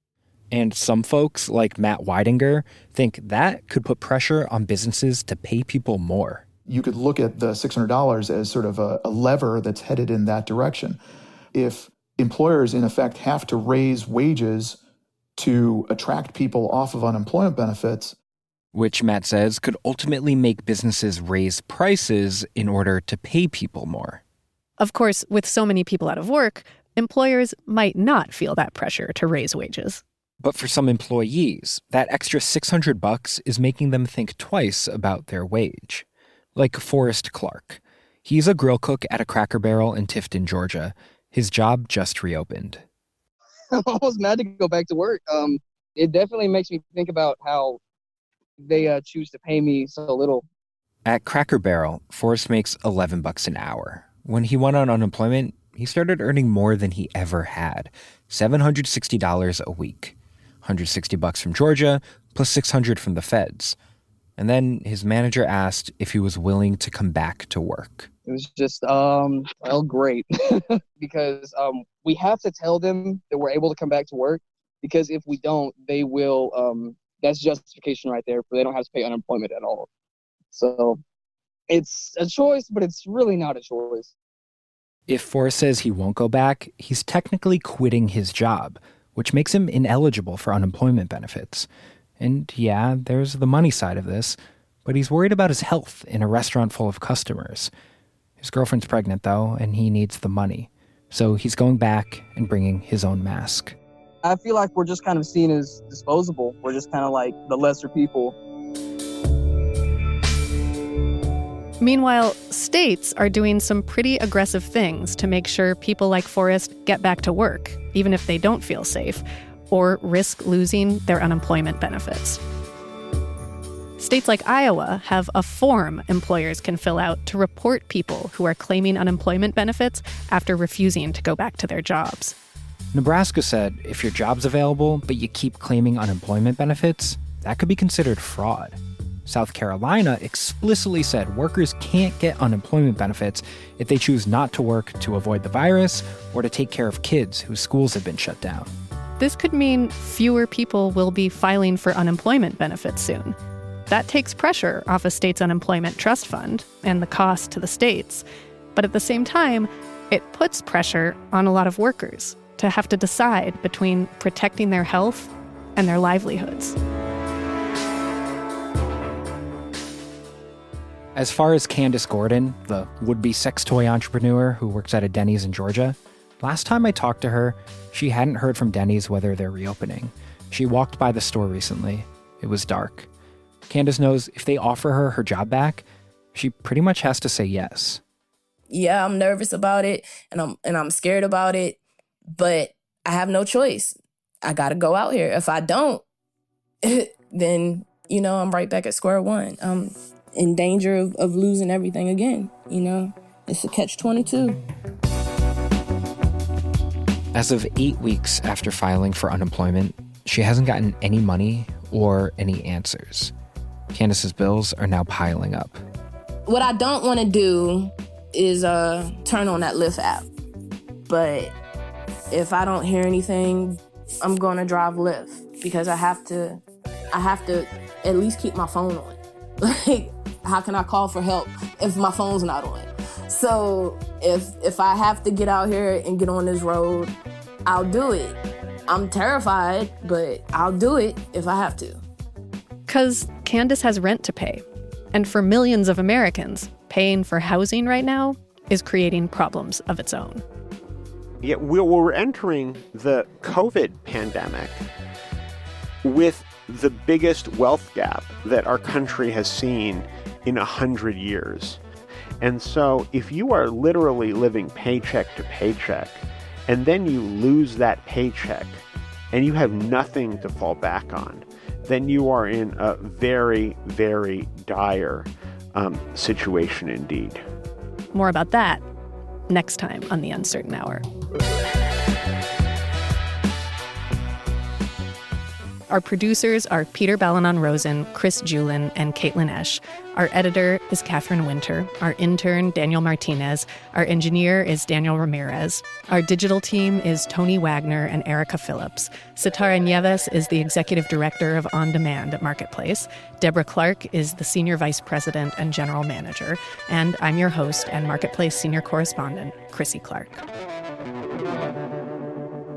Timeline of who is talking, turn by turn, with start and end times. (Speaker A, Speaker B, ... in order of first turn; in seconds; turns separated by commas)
Speaker A: 0.5-6.5, Speaker B: 6.7-11.0, Speaker B: 11.5-14.8, Speaker B: 15.4-18.2, Speaker A: 18.7-24.2, Speaker C: 24.8-30.0, Speaker A: 30.4-42.8, Speaker D: 43.7-47.8, Speaker D: 48.6-50.5, Speaker A: 51.1-63.8, Speaker A: 64.4-68.1, Speaker D: 68.3-79.9, Speaker D: 80.5-81.0, Speaker D: 81.7-84.1, Speaker A: 85.1-91.7, Speaker A: 92.2-97.7, Speaker A: 98.4-103.8, Speaker D: 104.2-108.3, Speaker C: 111.8-122.4, Speaker C: 124.0-132.3, Speaker A: 132.9-148.7, Speaker C: 149.2-153.4, Speaker C: 153.9-158.2, Speaker C: 158.8-166.8, Speaker A: 171.2-183.1, Speaker A: 183.7-188.0, Speaker E: 188.7-191.8, Speaker E: 192.4-196.0, Speaker E: 196.8-204.6, Speaker A: 207.3-213.3, Speaker A: 213.9-215.8, Speaker E: 216.5-220.3, Speaker E: 221.1-221.5, Speaker E: 222.3-237.1, Speaker E: 237.7-242.0, Speaker C: 242.9-250.4, Speaker F: 251.4-254.8, Speaker F: 256.0-261.8, Speaker F: 262.4-277.4, Speaker C: 278.1-278.8, Speaker C: 279.5-281.0, Speaker C: 285.9-310.4